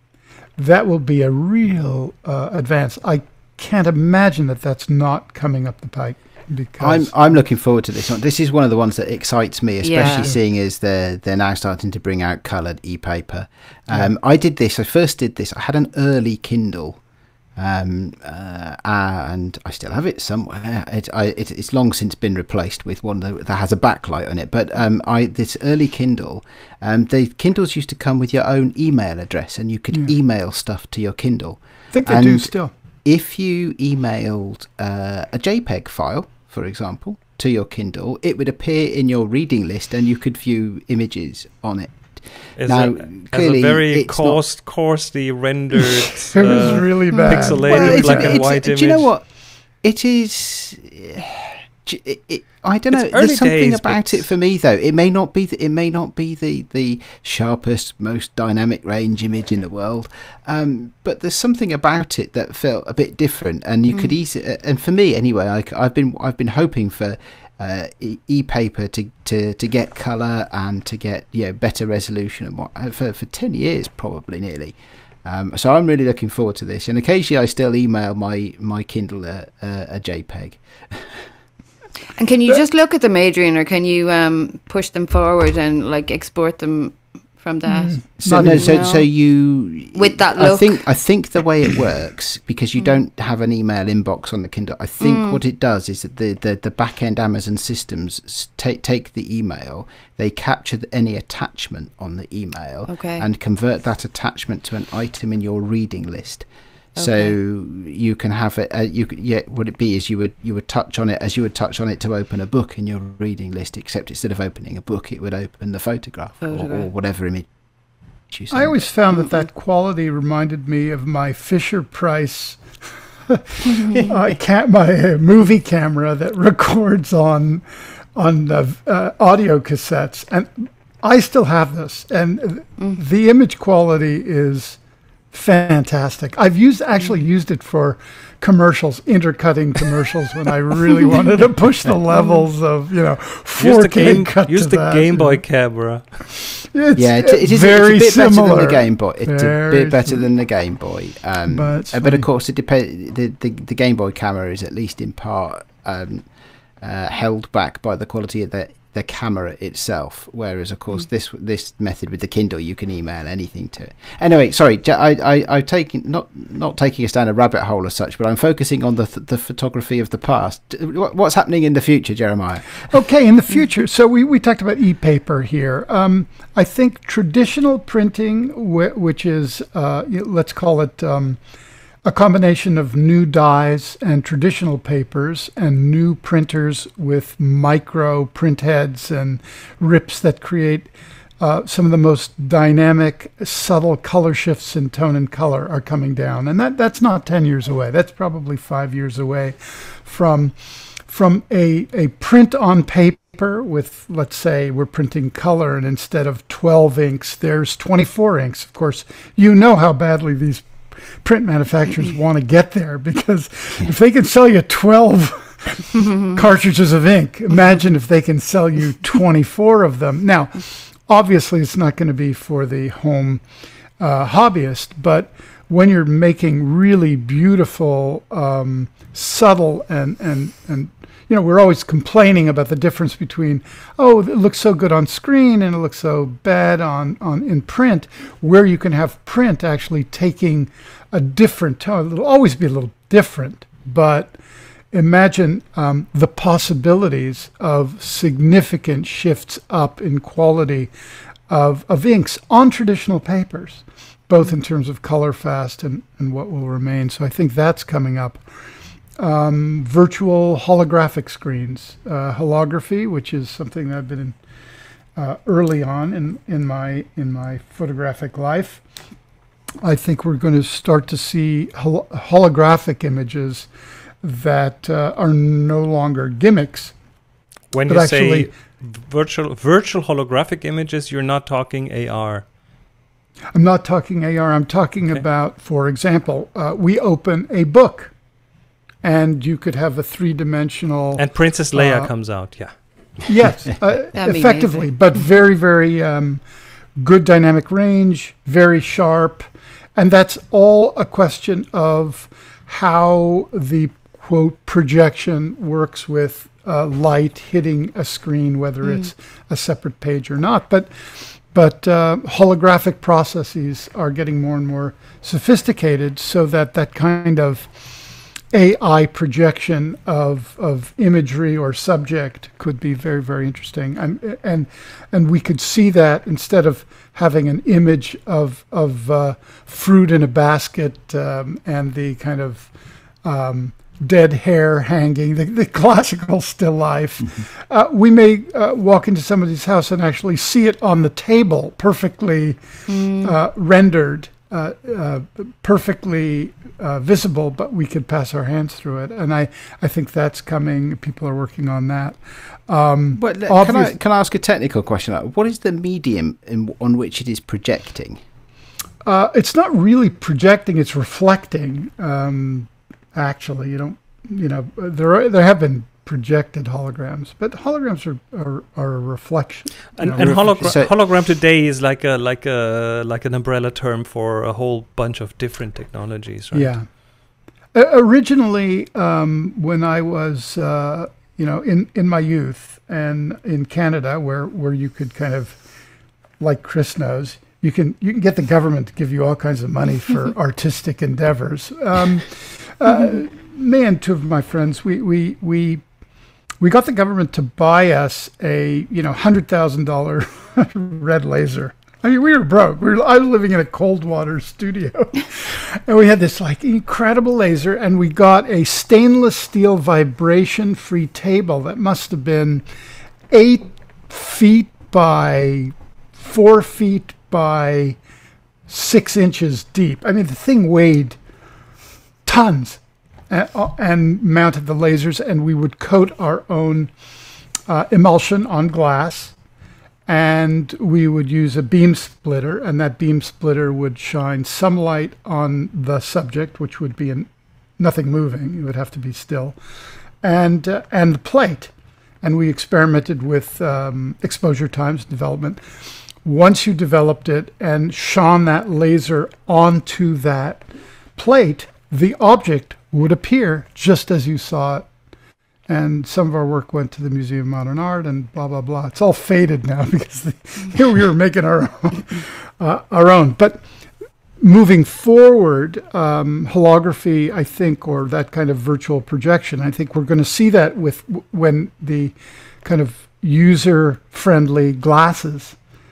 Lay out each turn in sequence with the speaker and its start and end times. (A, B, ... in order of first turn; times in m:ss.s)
0:00.6-0:07.1 A
0:06.8-0:17.0 B
0:09.8-0:10.3 C
0:10.0-0:10.4 A
0:17.6-0:32.5 B
0:31.9-0:32.7 A
0:33.0-0:44.4 B
0:42.6-0:49.1 D
0:46.2-0:48.4 A
0:46.6-0:47.4 C
0:47.5-0:49.2 B
0:49.8-1:21.1 B
0:52.9-0:54.3 D
1:22.2-1:29.1 C
1:27.7-1:28.9 A
1:28.2-1:57.5 B
1:29.9-1:30.8 C
1:35.0-1:35.4 C
1:42.9-1:43.2 C
1:47.0-1:47.3 C
1:56.4-1:56.9 C
1:58.3-1:58.7 B
1:58.5-2:14.8 A
2:03.7-2:04.1 C
2:15.3-2:25.4 A
2:22.1-2:22.4 C
2:23.6-2:26.0 D
2:26.5-2:30.2 A
2:27.0-2:36.2 B
2:31.5-2:32.2 A
2:36.8-2:52.9 B
2:52.9-3:01.4 A
3:02.0-3:10.9 A
3:11.4-3:43.4 A
3:44.0-4:04.3 A
4:04.9-4:10.9 A
4:11.5-4:18.4 A
4:19.2-4:24.4 A
4:25.2-4:28.8 A
4:29.8-4:33.7 A
4:34.2-4:36.9 A
4:37.7-4:42.4 D
4:37.9-4:38.5 A
4:43.5-4:48.1 A
4:49.0-4:52.1 A
4:51.2-4:52.7 D
4:53.2-4:56.4 A
4:54.1-4:54.9 C
4:57.0-4:59.4 A
5:00.0-5:10.9 A
5:11.5-5:17.7 A
5:18.5-5:32.7 A
5:33.2-5:42.6 A
5:42.9-5:43.3 C
5:43.2-5:54.0 A
5:53.1-5:58.2 B
5:59.0-6:10.8 A
6:10.0-6:16.7 D
6:10.1-6:10.9 B
6:16.5-6:16.8 A
6:17.7-6:25.6 A
6:26.4-6:35.8 A
6:36.6-6:52.6 A
6:53.3-6:58.0 A
6:58.7-7:01.2 A
7:02.2-7:06.9 A
7:07.7-7:09.4 A
7:10.1-7:19.6 A
7:20.2-7:25.6 A
7:26.2-7:30.6 A
7:31.2-7:34.9 A
7:35.7-7:43.6 A
7:44.4-7:55.6 A